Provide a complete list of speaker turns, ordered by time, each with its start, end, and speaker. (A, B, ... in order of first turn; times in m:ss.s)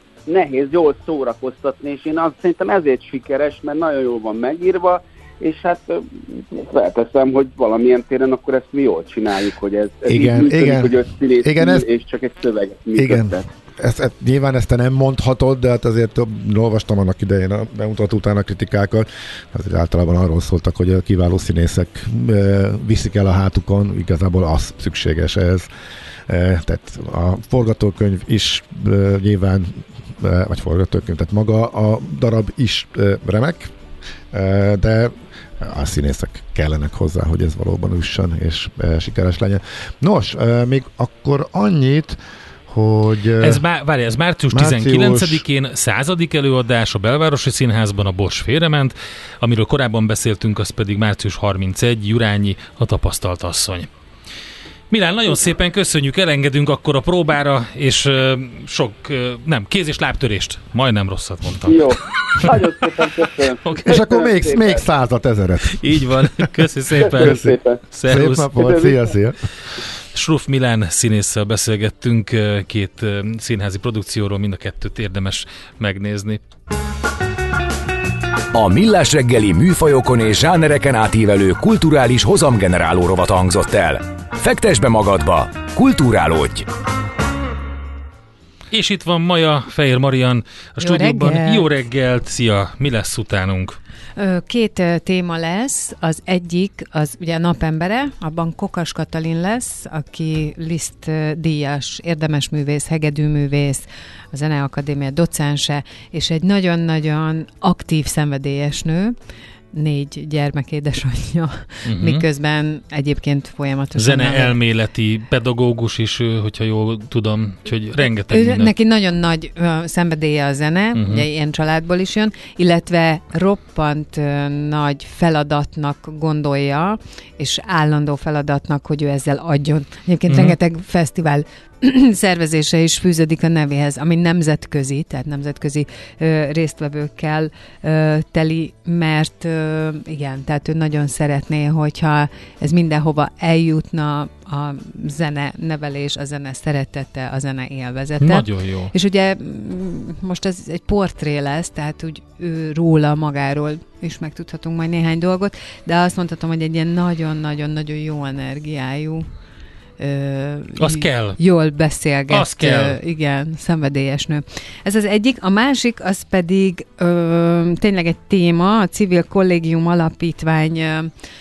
0:00.3-0:13.4 A
0:10.1-0:11.9 B
0:13.0-0:25.7 B
0:26.3-0:33.7 B
0:34.3-0:43.6 B
0:43.4-0:53.9 C
0:44.5-0:45.4 B
0:54.9-1:02.6 C
1:01.6-1:04.8 A
1:03.6-1:04.0 C
1:03.8-1:06.5 B
1:05.7-1:08.5 C
1:07.0-1:07.8 A
1:07.1-1:09.4 B
1:08.5-1:09.1 A
1:10.1-1:16.4 C
1:18.5-1:26.7 D
1:28.7-1:33.8 C
1:30.8-1:31.7 E
1:34.2-1:49.2 E
1:49.7-1:54.6 E
1:51.8-1:52.2 C
1:54.0-1:58.7 C
1:58.3-2:39.3 E
2:00.9-2:01.2 C
2:10.3-2:10.6 C
2:28.2-2:28.9 C
2:40.0-2:51.1 E
2:40.8-2:41.4 C
2:42.3-2:43.0 C